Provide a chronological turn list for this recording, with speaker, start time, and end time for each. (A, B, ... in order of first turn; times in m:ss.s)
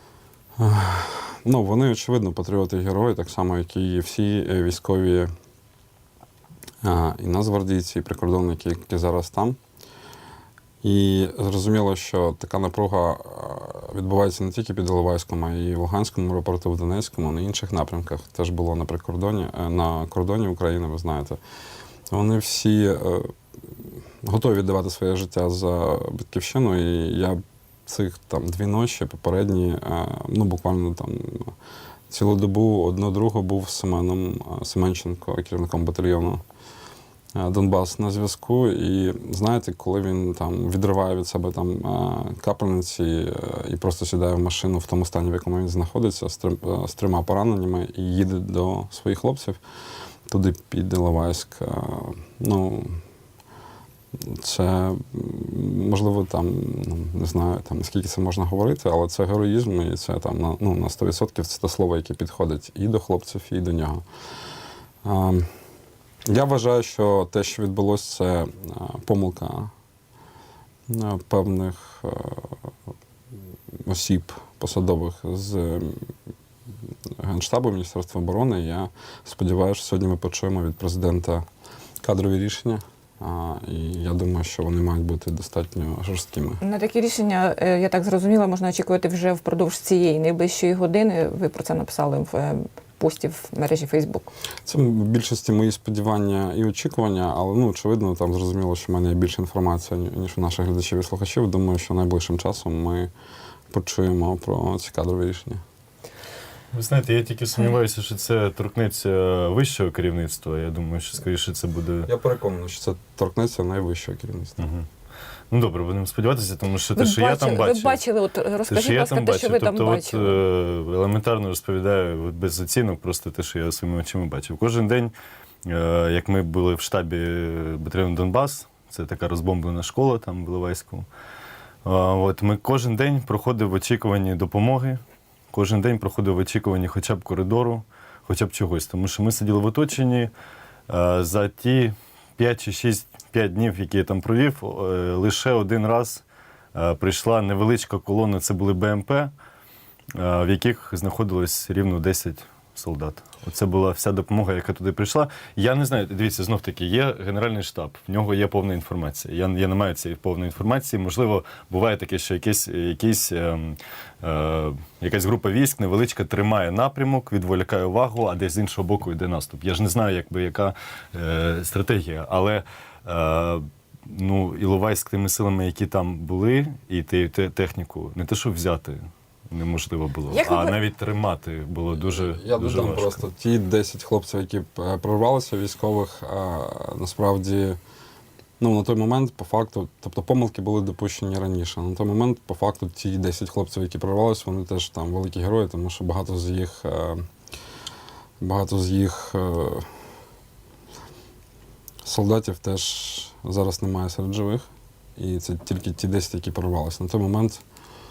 0:00.6-0:05.3 A
0:06.8-0:09.6 A
0:10.8-0:21.4 A
0:22.1-0:31.5 A
0:32.1-0:36.4 A
0:37.4-0:49.6 A
0:50.3-0:53.0 A
0:54.1-1:04.0 A
1:05.0-1:05.5 A
1:06.3-1:09.7 A
1:10.9-1:12.7 A
1:13.8-1:16.1 A
1:17.2-1:21.4 A
1:22.0-1:26.6 A
1:26.6-1:34.3 B
1:34.6-1:43.1 A
1:43.7-1:45.6 A
1:46.7-1:52.1 C
1:52.0-1:54.7 A
1:54.6-1:54.8 C
1:55.5-1:58.0 C
1:57.0-2:00.4 B
1:58.7-2:05.1 C
2:05.6-2:11.0 C
2:11.8-2:15.0 C
2:15.5-2:20.3 C
2:20.9-2:26.2 C
2:26.7-2:29.3 C
2:30.1-3:03.2 C
3:00.3-3:00.8 B
3:02.0-3:07.8 A
3:08.6-3:17.2 A
3:18.4-3:19.9 A
3:22.0-3:27.6 A